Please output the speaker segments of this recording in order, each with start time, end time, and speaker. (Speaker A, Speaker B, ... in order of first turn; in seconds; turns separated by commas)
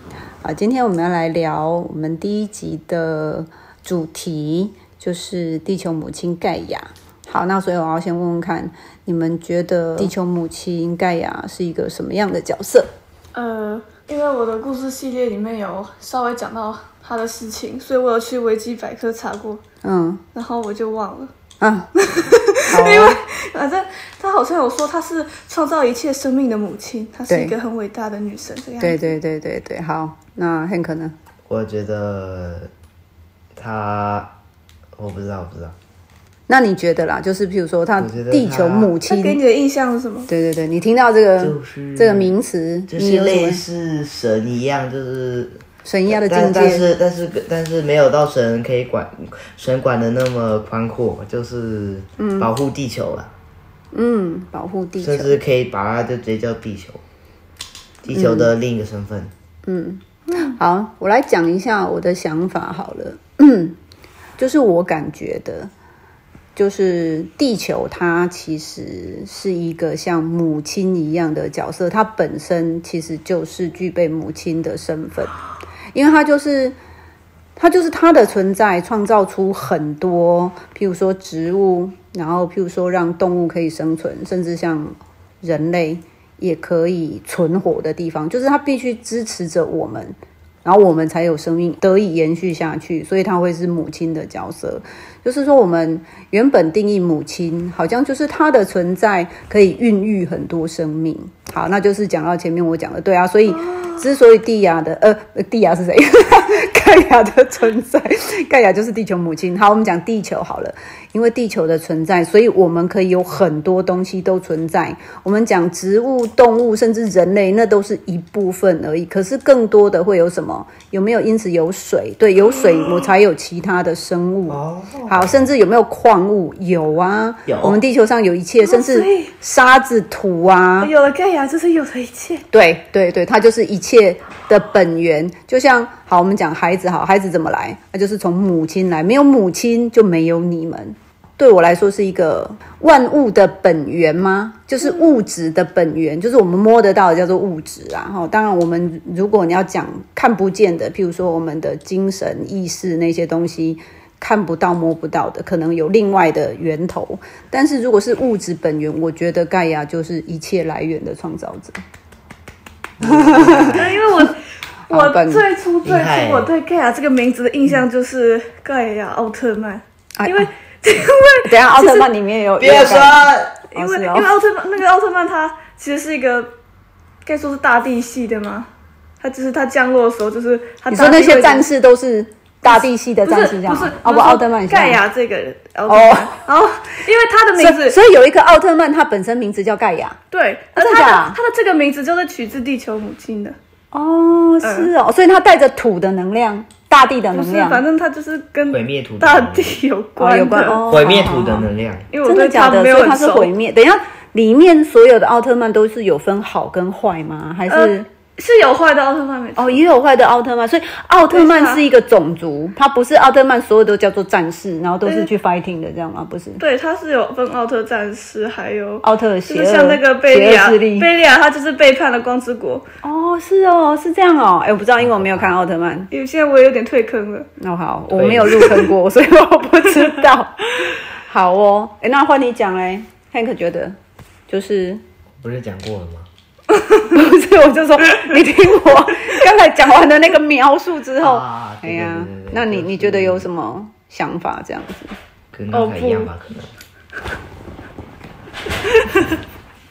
Speaker A: 0.4-12.9, Speaker B: 13.3-19.6, Speaker A: 19.8-20.2, Speaker B: 20.3-21.3, Speaker A: 21.6-21.9, Speaker B: 22.0-29.1, Speaker A: 22.7-23.2, Speaker A: 27.3-27.6, Speaker A: 28.8-31.1, Speaker C: 31.5-32.7, Speaker C: 33.5-34.3, Speaker C: 35.0-35.7, Speaker A: 36.5-39.4, Speaker C: 38.0-39.0, Speaker B: 39.0-40.3, Speaker A: 40.3-43.6, Speaker C: 41.4-42.4, Speaker C: 42.9-53.3, Speaker A: 45.8-46.9, Speaker A: 52.2-52.5, Speaker A: 53.9-55.4, Speaker C: 55.0-57.0, Speaker C: 58.0-59.3, Speaker A: 58.1-58.5, Speaker A: 59.6-63.8, Speaker A: 64.4-65.7, Speaker A: 66.5-75.4, Speaker A: 75.9-76.7, Speaker A: 77.5-130.9, Speaker B: 122.5-123.1, Speaker C: 124.5-125.5, Speaker C: 127.5-127.8, Speaker B: 128.6-129.3, Speaker B: 130.8-132.4, Speaker A: 132.5-161.8, Speaker B: 144.8-145.1, Speaker C: 163.0-164.0, Speaker A: 163.0-164.0, Speaker B: 163.7-172.1, Speaker A: 164.9-165.5, Speaker C: 165.8-166.5, Speaker A: 170.2-170.5, Speaker A: 171.4-174.3, Speaker C: 172.6-173.6, Speaker B: 173.7-176.5, Speaker B: 177.2-178.7, Speaker B: 179.2-181.7, Speaker A: 180.9-185.0, Speaker B: 182.7-188.0, Speaker A: 185.9-186.3, Speaker A: 187.6-190.2, Speaker B: 190.3-193.6, Speaker A: 190.7-191.4, Speaker A: 193.9-197.8, Speaker B: 194.6-194.9, Speaker B: 197.3-200.8, Speaker C: 198.7-199.8, Speaker A: 200.2-201.7, Speaker C: 200.8-202.1, Speaker B: 202.1-203.5, Speaker A: 202.2-208.1, Speaker B: 207.7-209.8, Speaker A: 209.6-216.6, Speaker B: 211.3-211.8, Speaker B: 216.6-222.8, Speaker A: 219.0-221.1, Speaker A: 223.0-226.1, Speaker C: 225.0-225.5, Speaker B: 226.1-227.5, Speaker A: 227.6-233.9, Speaker C: 228.1-228.7, Speaker B: 228.5-228.9, Speaker A: 234.5-235.0, Speaker C: 235.4-236.3, Speaker A: 236.9-245.1, Speaker C: 241.2-243.5, Speaker C: 245.5-246.7, Speaker B: 245.7-246.3